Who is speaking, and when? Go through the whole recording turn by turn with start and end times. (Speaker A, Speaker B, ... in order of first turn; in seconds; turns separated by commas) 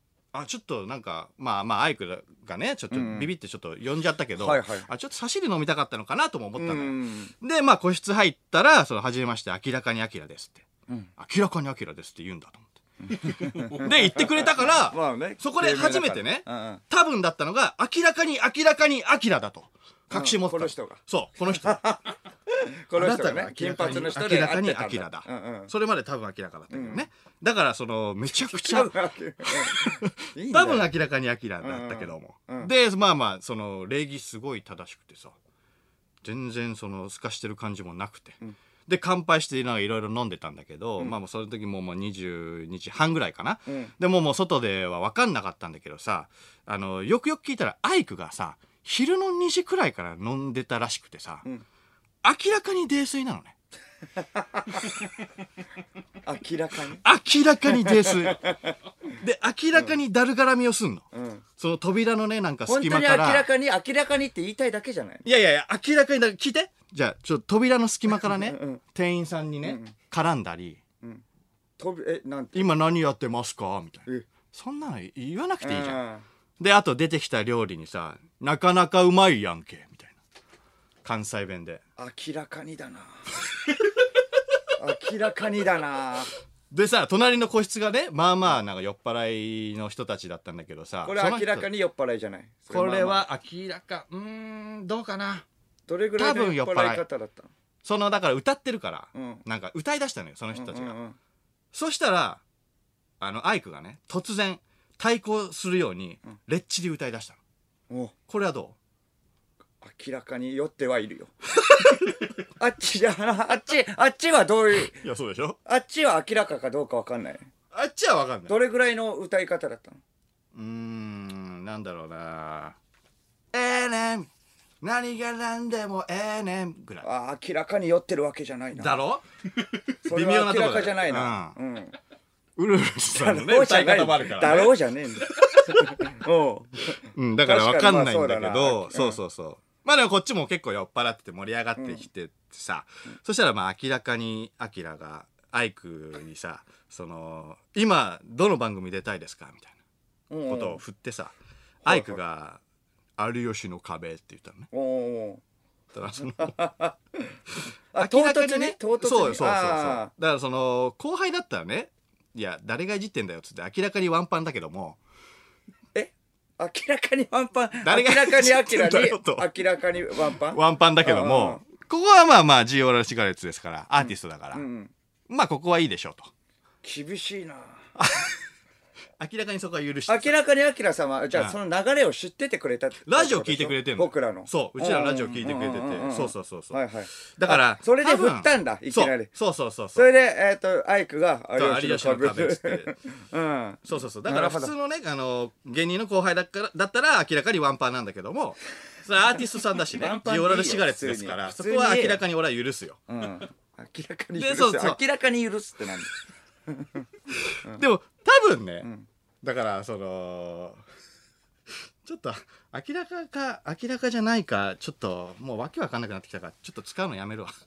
Speaker A: 0.3-21.8, Speaker B: 2.9-3.3, Speaker B: 4.4-4.9, Speaker B: 6.6-7.3, Speaker B: 13.1-16.8, Speaker B: 20.1-25.7, Speaker A: 23.0-28.9, Speaker B: 26.7-27.1, Speaker B: 28.3-30.9, Speaker A: 29.4-35.4, Speaker B: 31.6-32.7, Speaker A: 36.2-51.5, Speaker B: 43.7-43.9, Speaker A: 52.2-53.6, Speaker B: 54.2-55.0, Speaker B: 56.2-57.0, Speaker A: 57.0-58.5, Speaker B: 57.7-58.7, Speaker A: 59.1-61.1, Speaker B: 61.1-61.4, Speaker A: 61.6-63.5, Speaker B: 62.7-65.2, Speaker A: 65.2-70.8, Speaker B: 68.2-68.8, Speaker B: 69.6-69.9, Speaker B: 71.8-72.7, Speaker A: 72.5-76.0, Speaker B: 75.6-76.2, Speaker A: 76.6-80.2, Speaker A: 81.0-81.8, Speaker B: 82.0-83.2, Speaker B: 84.8-86.3, Speaker A: 86.7-91.7, Speaker B: 91.0-93.2, Speaker A: 92.7-95.5, Speaker B: 95.9-97.5, Speaker A: 96.2-97.0, Speaker A: 97.8-101.0, Speaker B: 99.2-99.4, Speaker B: 100.5-101.2, Speaker A: 101.7-102.4, Speaker A: 103.2-107.4, Speaker A: 108.3-108.8, Speaker B: 109.8-115.0, Speaker A: 114.9-115.6, Speaker B: 115.7-117.5, Speaker A: 117.7-118.6, Speaker B: 118.5-120.0, Speaker A: 120.5-122.8, Speaker A: 123.5-124.3, Speaker A: 124.8-127.1, Speaker B: 127.0-129.0, Speaker A: 128.8-129.3, Speaker A: 129.9-131.6, Speaker B: 130.1-131.9, Speaker A: 132.6-134.8, Speaker B: 133.2-139.2, Speaker A: 135.4-136.0, Speaker A: 137.2-149.8, Speaker B: 141.8-142.0, Speaker B: 150.3-150.8, Speaker A: 150.5-151.3, Speaker B: 151.8-152.2, Speaker A: 151.8-152.6, Speaker A: 153.2-154.7, Speaker B: 154.7-155.4, Speaker A: 155.9-156.6, Speaker B: 156.3-157.4, Speaker A: 157.6-165.0, Speaker B: 157.9-160.1, Speaker B: 165.9-171.6, Speaker A: 167.8-169.5, Speaker A: 170.3-174.7, Speaker B: 174.5-174.9, Speaker A: 175.3-176.3, Speaker B: 176.8-177.9, Speaker A: 178.0-178.4, Speaker A: 179.2-180.4, Speaker B: 180.1-189.3, Speaker A: 183.1-190.1, Speaker B: 189.9-194.7, Speaker A: 191.6-192.9, Speaker A: 193.8-203.0, Speaker B: 199.9-202.2, Speaker B: 203.1-207.1, Speaker A: 204.4-205.0, Speaker A: 207.3-208.9, Speaker A: 209.4-210.8, Speaker A: 212.0-217.5